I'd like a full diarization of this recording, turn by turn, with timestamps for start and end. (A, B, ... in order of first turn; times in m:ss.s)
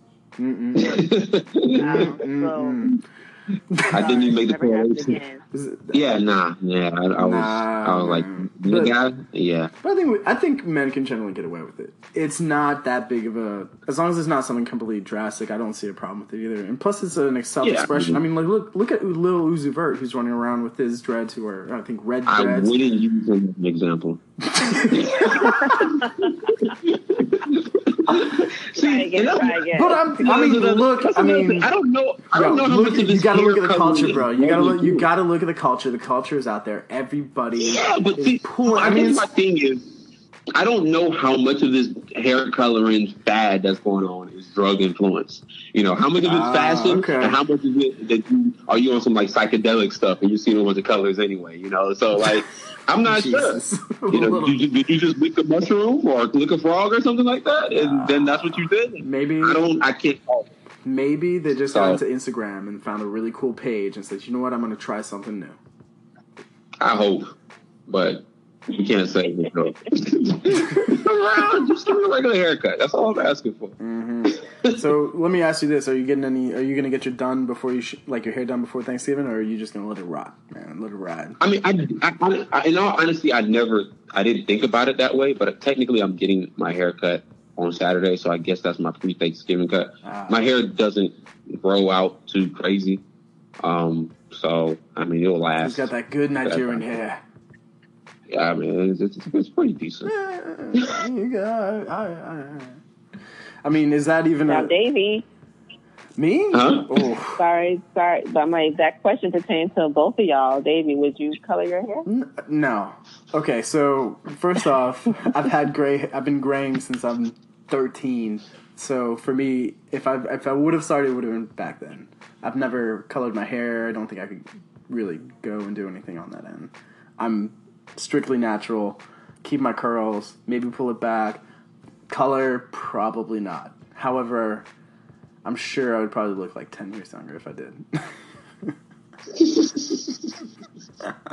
0:00.4-0:01.0 A
0:00.8-0:02.1 B
0:01.7-0:02.9 C
0:01.8-0:03.0 A
0:03.7-0:04.1 A
0:03.9-0:05.2 B
0:03.9-0:05.4 C
0:05.5-0:06.1 A
0:05.9-0:09.7 B
0:07.2-0:09.0 A
0:09.8-0:22.7 A
0:17.6-0:18.2 B
0:22.3-0:29.7 B
0:24.5-0:25.8 A
0:25.8-0:26.5 C
0:28.7-0:30.1 C
0:29.7-0:31.7 A
0:30.2-0:35.1 B
0:32.3-0:39.3 A
0:37.6-0:39.9 B
0:40.5-0:53.6 B
0:46.2-0:47.4 A
0:53.0-0:54.6 A
0:54.1-1:00.5 B
0:57.7-0:59.6 A
1:00.8-1:05.6 A
1:01.7-1:02.0 B
1:06.8-1:07.3 B
1:07.9-1:14.9 B
1:13.8-1:21.4 A
1:21.4-1:33.0 B
1:30.0-1:30.4 A
1:33.6-1:35.9 B
1:35.6-1:37.2 A
1:36.4-1:36.8 B
1:38.3-1:40.1 B
1:40.0-1:42.8 A
1:43.6-1:44.7 A
1:44.5-1:45.2 C
1:46.2-1:47.4 A
1:46.5-1:47.1 B
1:47.4-1:52.1 C
1:52.1-2:11.4 A
2:12.1-2:14.7 A
2:15.4-2:18.7 A
2:19.3-2:20.3 B